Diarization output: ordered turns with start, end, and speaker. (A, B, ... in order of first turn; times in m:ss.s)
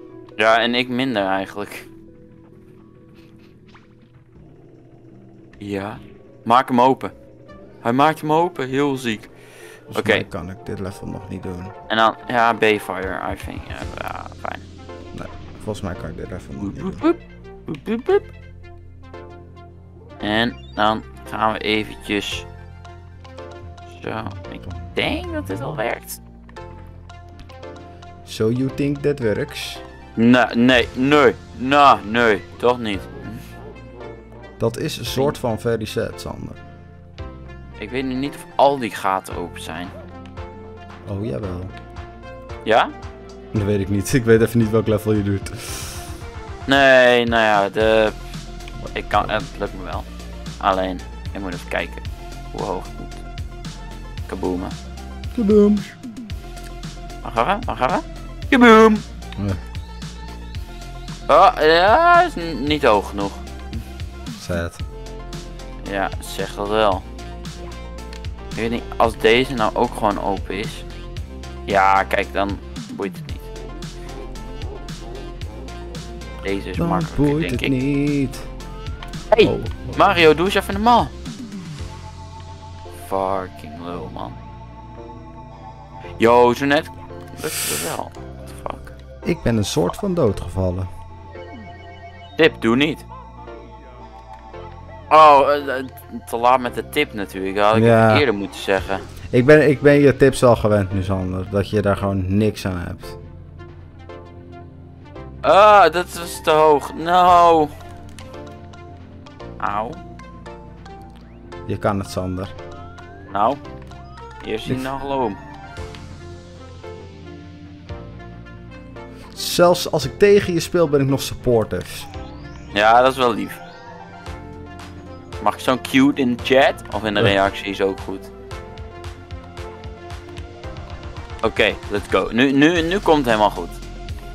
0:00.4-0:01.9 A
0:05.6-0:07.1 A
0:07.8-0:09.3 A
0:09.9-0:11.7 B
0:10.0-0:10.2 A
0:11.9-0:14.6 A
0:15.1-0:17.0 B
0:16.6-0:18.3 A
0:20.2-0:22.5 A
0:23.9-0:26.2 A
0:28.3-0:29.8 B
0:30.2-0:33.4 A
0:34.6-0:36.6 B
0:37.8-0:39.9 A
0:41.1-0:41.7 B
0:42.6-0:42.9 A
0:43.5-0:46.0 B
0:46.7-0:48.2 A
0:48.9-0:50.1 A
0:50.6-0:53.2 A
0:54.3-0:54.8 A
0:55.3-0:55.9 B
0:57.2-0:59.0 A
1:01.3-1:03.4 A
1:04.4-1:04.8 B
1:05.8-1:07.0 A
1:08.5-1:10.8 A
1:11.7-1:13.5 A
1:16.4-1:17.7 A
1:16.8-1:18.5 B
1:19.3-1:21.1 A
1:19.4-1:20.0 B
1:23.0-1:24.4 A
1:26.2-1:28.9 A
1:29.2-1:30.9 B
1:32.4-1:33.0 A
1:35.1-1:39.0 A
1:37.7-1:38.2 B
1:39.3-1:43.2 B
1:45.4-1:47.7 A
1:49.6-1:50.0 A
1:51.7-1:52.5 B
1:53.3-1:53.6 A
1:54.4-1:55.4 A
1:59.4-2:02.1 B
2:02.7-2:03.6 A
2:05.4-2:08.3 A
2:11.4-2:13.8 A